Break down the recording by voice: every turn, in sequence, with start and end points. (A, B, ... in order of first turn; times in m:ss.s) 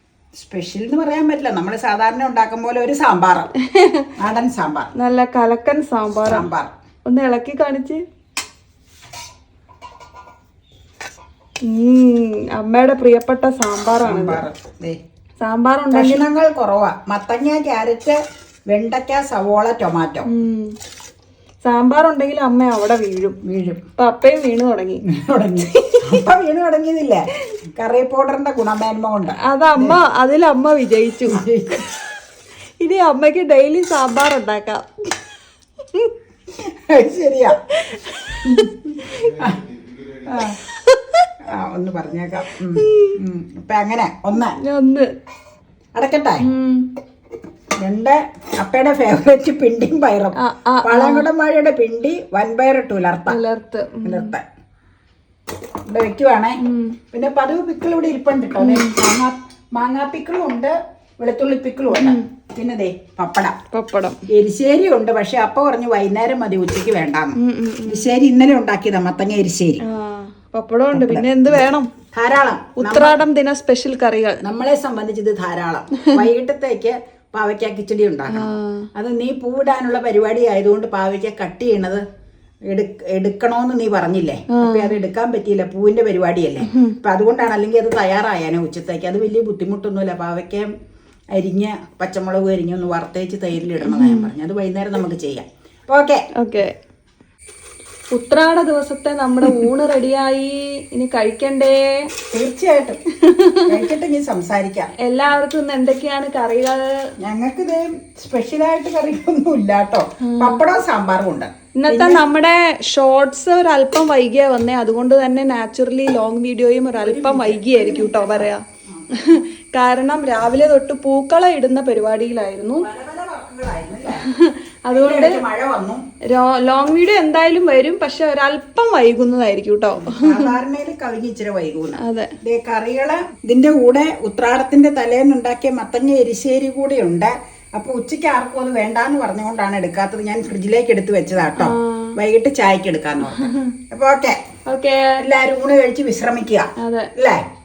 0:00.4-0:03.5 A
0:03.6-0:04.1 B
0:04.2-0:04.9 A
0:05.0-0:06.5 B
0:06.3-0:06.7 A
0:07.1-0:08.0 B
0:11.6-0:14.4 B
0:14.0-0:15.0 A
0:15.4-0:16.2 B
0:15.9-0:18.2 A
0:18.7-0:20.3 A
0:20.3-0:20.7 B
0:21.6-0:23.4 B
0:23.4-0:23.8 A
0:24.0-0:25.0 B
0:25.0-0:30.0 A
0:25.6-0:26.2 B
0:29.4-0:31.4 B
0:31.3-0:31.9 A
0:32.8-0:34.9 B
0:36.5-0:37.6 A
0:37.7-0:39.4 B
0:38.4-0:39.6 A
0:40.2-0:40.6 A
0:40.4-0:41.2 B
0:41.4-0:44.6 A
0:42.8-0:43.2 B
0:44.6-0:45.1 B
0:46.0-0:46.4 A
0:46.4-0:46.9 B
0:47.8-0:53.4 A
0:50.4-0:51.3 B
0:53.3-0:54.3 B
0:54.0-0:54.4 A
0:55.9-0:56.6 A
0:56.6-0:57.0 B
0:57.1-1:03.6 A
0:58.6-0:59.0 B
1:01.9-1:02.3 B
1:03.7-1:04.2 B
1:04.3-1:09.8 A
1:07.4-1:08.1 B
1:09.8-1:11.9 B
1:10.9-1:11.6 A
1:12.1-1:13.2 A
1:12.8-1:14.4 B
1:14.4-1:22.0 A
1:18.3-1:18.9 B
1:22.7-1:30.7 A
1:24.5-1:25.0 B
1:26.7-1:27.0 B
1:31.3-1:36.2 A
1:33.8-1:34.3 B
1:36.4-1:36.7 B
1:38.1-1:42.0 B
1:42.3-1:43.0 A
1:43.3-1:43.8 B
1:43.7-1:44.9 A
1:45.0-1:46.8 B
1:47.2-1:52.2 A
1:50.2-1:50.6 B
1:51.8-2:02.9 B
1:56.9-1:59.4 A
2:02.8-2:04.3 A
2:04.2-2:05.4 B
2:04.9-2:06.0 A
2:06.3-2:10.5 B
2:10.0-2:24.4 A
2:12.0-2:12.4 B
2:21.6-2:22.2 B
2:23.2-2:23.8 B
2:24.7-2:25.2 B
2:25.2-2:27.4 A
2:26.8-2:27.1 B